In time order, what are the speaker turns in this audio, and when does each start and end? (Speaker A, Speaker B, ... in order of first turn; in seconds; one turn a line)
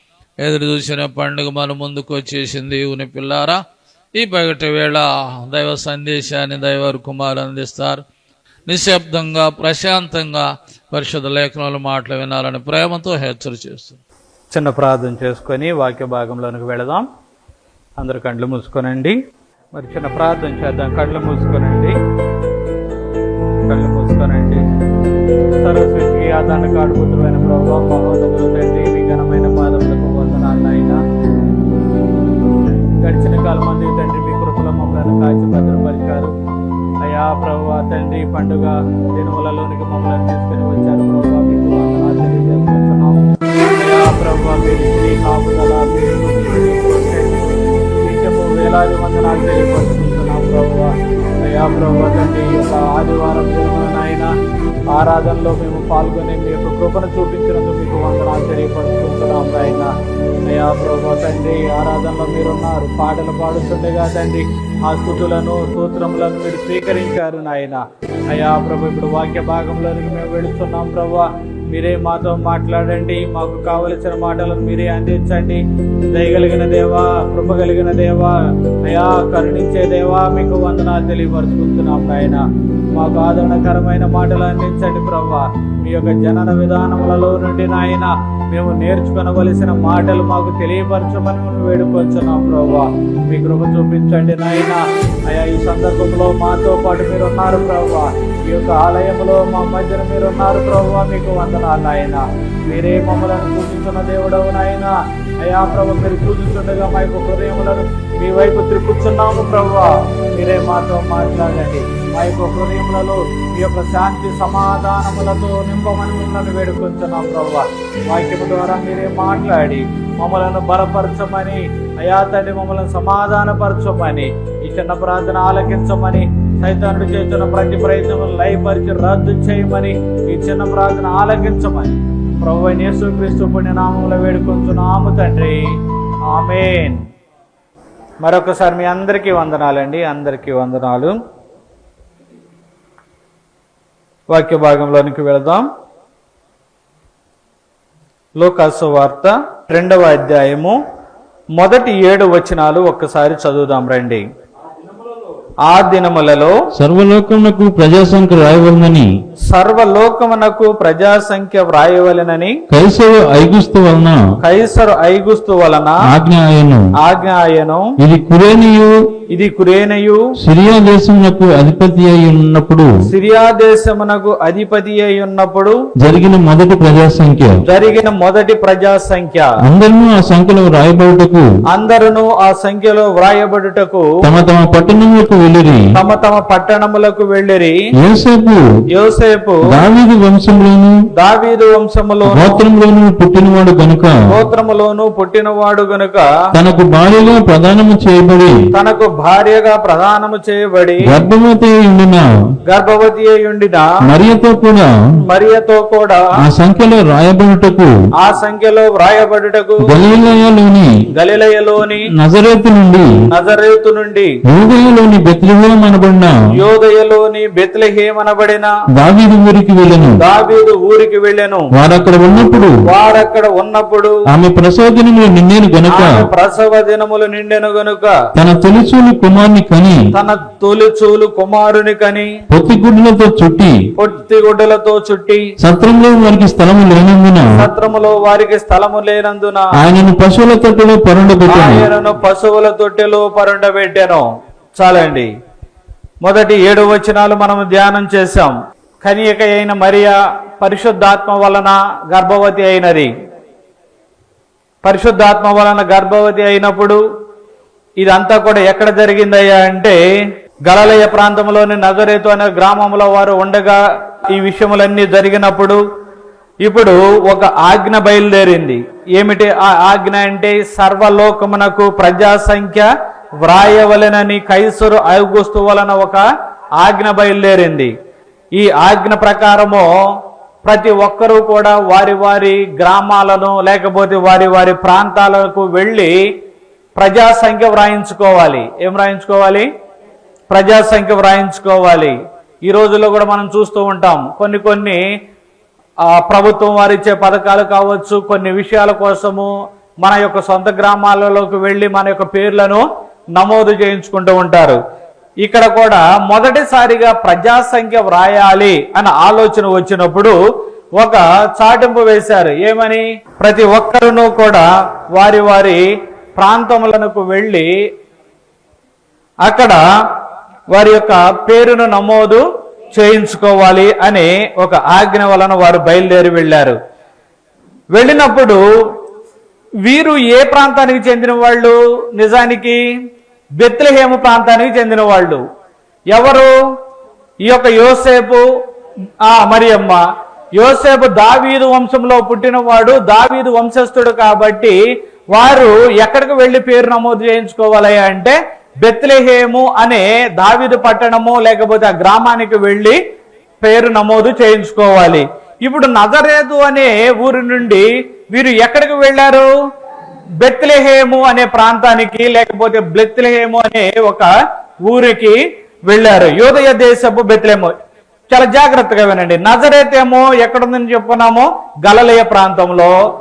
Speaker A: 0.4-3.6
Speaker A: 4.2-8.0
Speaker A: 8.7-14.0
Speaker B: 14.5-17.1
Speaker B: 18.0-19.2
Speaker B: 19.7-22.0
Speaker B: 23.7-24.6
Speaker B: 25.6-31.0
Speaker B: 33.0-36.3
Speaker B: 37.0-54.3
Speaker B: 54.9-59.9
Speaker B: 60.5-82.4
Speaker B: 83.0-135.7
Speaker B: 136.3-137.1
Speaker B: 138.2-141.2
Speaker B: 144.3-145.7
Speaker B: 148.4-150.8
Speaker B: 151.6-154.2
Speaker B: 155.7-156.6
Speaker C: 156.8-159.1
Speaker B: 159.5-162.6
Speaker C: 162.7-164.2
Speaker B: 164.4-166.0
Speaker C: 166.1-166.8
Speaker B: 167.0-167.9
Speaker C: 168.0-169.0
Speaker B: 169.3-170.3
Speaker C: 170.4-172.9
Speaker B: 173.1-175.8
Speaker C: 176.0-177.6
Speaker B: 177.7-179.5
Speaker C: 179.7-181.5
Speaker B: 181.7-184.1
Speaker C: 184.2-185.8
Speaker B: 185.9-187.8
Speaker C: 188.0-188.6
Speaker B: 188.9-189.8
Speaker C: 189.7-190.9
Speaker B: 191.2-192.6
Speaker C: 192.3-194.2
Speaker B: 194.3-196.3
Speaker C: 196.6-198.6
Speaker B: 198.7-201.1
Speaker C: 201.0-202.2
Speaker B: 202.7-203.9
Speaker C: 204.1-204.9
Speaker B: 205.3-206.2
Speaker C: 206.4-207.9
Speaker B: 208.2-210.0
Speaker C: 209.8-210.9
Speaker B: 211.2-212.1
Speaker C: 212.2-213.1
Speaker B: 213.3-214.3
Speaker C: 214.5-216.3
Speaker B: 216.6-218.7
Speaker C: 219.0-220.2
Speaker B: 220.2-221.7
Speaker C: 221.8-222.8
Speaker B: 222.8-224.2
Speaker C: 224.3-226.3
Speaker B: 225.9-228.2
Speaker C: 228.4-230.0
Speaker B: 230.1-232.3
Speaker C: 232.5-233.8
Speaker B: 234.0-235.5
Speaker C: 235.6-237.5
Speaker B: 237.5-239.7
Speaker C: 239.8-241.9
Speaker B: 241.5-244.2
Speaker B: 244.8-245.3
Speaker B: 246.2-253.1
Speaker B: 254.8-257.0
Speaker B: 258.0-260.0
Speaker B: 260.7-263.8
Speaker B: 264.3-265.8
Speaker B: 266.6-272.9
Speaker B: 273.4-276.2
Speaker B: 276.8-277.9
Speaker B: 278.6-279.9
Speaker B: 280.6-286.1
Speaker B: 287.0-289.7
Speaker B: 290.5-292.1
Speaker B: 292.7-295.0
Speaker B: 296.0-299.5
Speaker B: 300.0-304.8
Speaker B: 305.4-310.4
Speaker B: 311.0-315.9
Speaker B: 316.4-317.7
Speaker B: 319.4-319.8
Speaker B: 320.7-326.8
Speaker B: 327.9-328.6
Speaker B: 329.9-332.8
Speaker B: 333.6-335.4
Speaker B: 336.1-336.5
Speaker B: 337.5-338.4
Speaker B: 339.2-340.0
Speaker B: 340.6-344.8
Speaker B: 345.3-353.0
Speaker B: 353.6-359.5
Speaker B: 360.4-364.3
Speaker B: 364.9-367.8
Speaker B: 368.3-373.0